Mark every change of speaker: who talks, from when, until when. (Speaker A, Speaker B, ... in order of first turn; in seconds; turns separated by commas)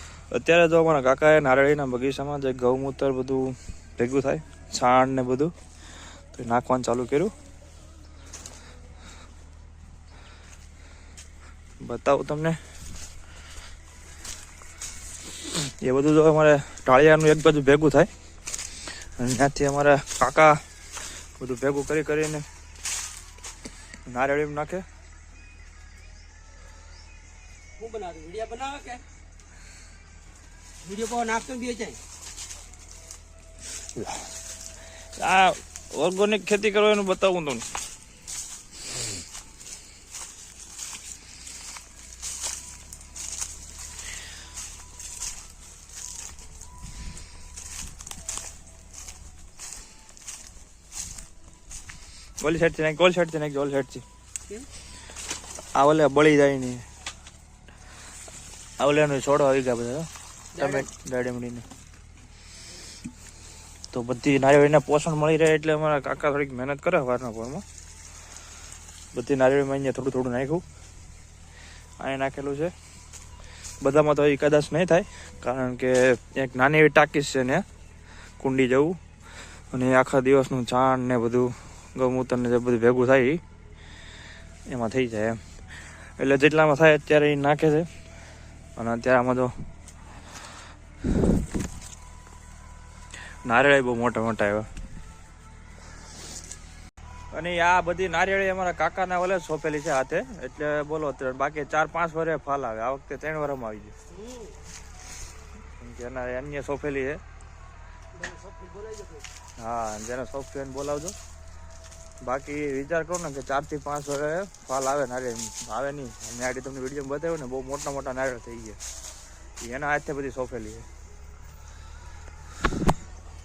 Speaker A: 0.3-5.5, Speaker A: 6.3-7.3, Speaker A: 11.8-12.6, Speaker A: 15.8-18.1, Speaker A: 18.9-20.6, Speaker A: 21.4-22.4, Speaker A: 24.1-24.8, Speaker B: 27.8-29.0, Speaker B: 30.8-32.0, Speaker A: 35.2-37.6, Speaker A: 52.4-54.0, Speaker A: 55.8-56.8, Speaker A: 58.8-61.6, Speaker B: 60.6-60.9, Speaker A: 63.9-67.6, Speaker A: 69.1-70.6, Speaker A: 72.0-72.7, Speaker A: 73.8-77.7, Speaker A: 78.4-79.0, Speaker A: 79.7-83.4, Speaker A: 84.7-85.4, Speaker A: 86.2-87.9, Speaker A: 88.8-89.5, Speaker A: 93.4-94.7, Speaker A: 97.3-103.9, Speaker B: 104.1-104.5, Speaker A: 105.8-107.2, Speaker B: 108.1-109.3, Speaker A: 109.6-111.2, Speaker A: 112.2-118.8, Speaker A: 119.6-120.9